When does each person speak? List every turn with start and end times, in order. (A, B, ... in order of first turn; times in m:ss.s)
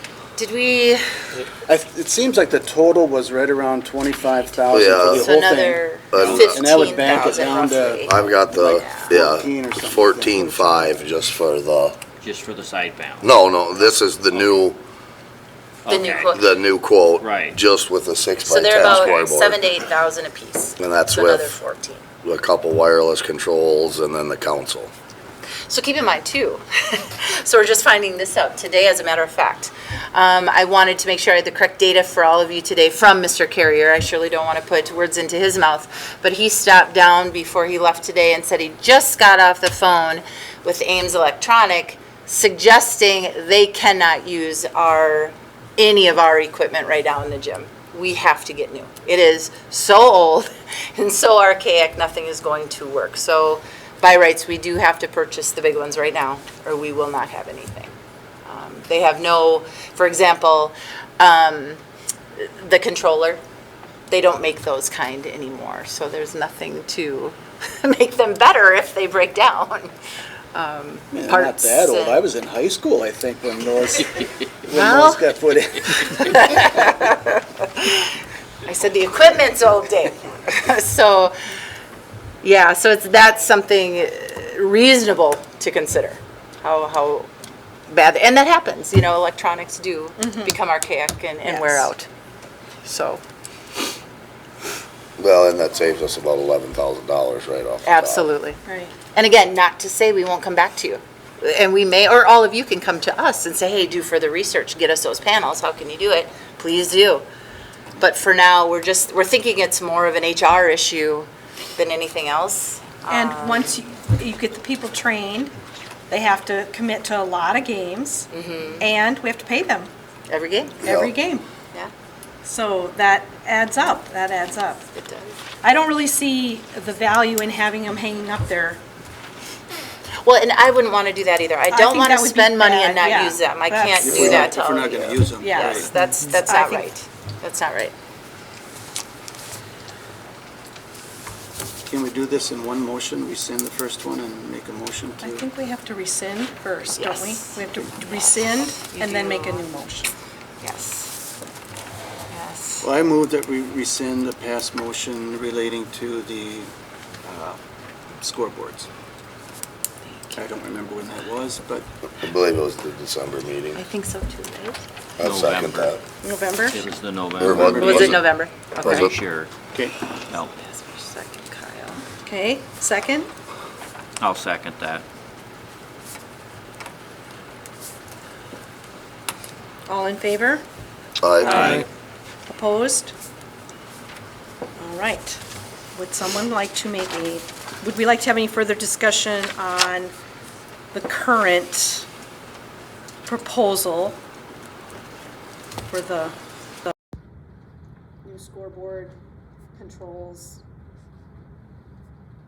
0:00.4-0:01.0 A
0:01.7-0:11.0 B
0:04.7-0:05.3 C
0:05.0-0:08.1 A
0:06.1-0:06.6 C
0:06.2-0:06.6 D
0:08.0-0:12.0 C
0:08.8-0:09.1 A
0:12.2-0:13.4 D
0:13.2-0:14.8 C
0:15.8-0:16.3 D
0:15.9-0:16.6 A
0:16.2-0:19.8 C
0:17.2-0:17.6 D
0:18.4-0:22.1 A
0:20.8-0:21.6 C
0:22.2-0:24.9 C
0:25.7-0:57.9 A
0:58.5-1:01.8 A
1:02.4-1:03.4 A
1:04.1-1:09.9 A
1:10.5-1:12.2 A
1:11.1-1:16.8 B
1:14.7-1:15.2 A
1:16.0-1:18.1 A
1:18.6-1:21.3 A
1:22.4-1:27.3 A
1:27.9-1:32.1 A
1:30.2-1:30.5 E
1:31.4-1:31.9 E
1:32.8-1:33.2 A
1:35.2-1:38.3 C
1:37.8-1:38.6 A
1:38.6-1:38.9 E
1:39.1-1:47.2 A
1:48.0-1:53.7 A
1:53.1-1:55.5 E
1:56.1-1:59.9 E
1:58.3-1:58.8 A
2:00.3-2:00.8 A
2:00.8-2:01.5 E
2:00.8-2:01.1 C
2:02.4-2:04.8 E
2:04.9-2:05.4 A
2:05.6-2:08.8 E
2:10.2-2:17.9 A
2:11.7-2:14.2 E
2:14.0-2:15.9 B
2:15.4-2:15.9 E
2:16.4-2:16.9 E
2:21.8-2:25.4 B
2:25.2-2:30.1 E
2:27.0-2:29.7 A
2:30.6-2:31.1 A
2:32.3-2:32.9 A
2:32.8-2:36.7 B
2:37.2-2:37.6 B
2:38.2-2:38.9 B
2:40.0-2:40.4 A
2:40.3-2:41.9 B
2:42.1-2:43.8 C
2:43.7-2:44.8 A
2:45.2-2:46.0 C
2:45.2-2:46.0 D
2:46.2-2:46.8 E
2:46.7-2:48.2 D
2:47.4-2:48.2 C
2:47.5-2:48.1 B
2:47.6-2:49.1 A
2:48.8-2:49.5 D
2:48.8-2:49.1 C
2:50.5-2:52.0 A
2:52.2-2:53.3 E
2:54.2-2:55.0 D
2:59.9-3:00.6 E
3:01.2-3:01.8 C
3:01.4-3:01.8 E
3:01.5-3:01.8 D
3:02.5-3:03.1 E
3:04.8-3:05.4 E
3:05.9-3:10.1 E
3:10.9-3:12.1 E
3:13.2-3:14.2 E
3:15.9-3:16.9 E
3:18.2-3:19.2 E
3:19.8-3:20.6 E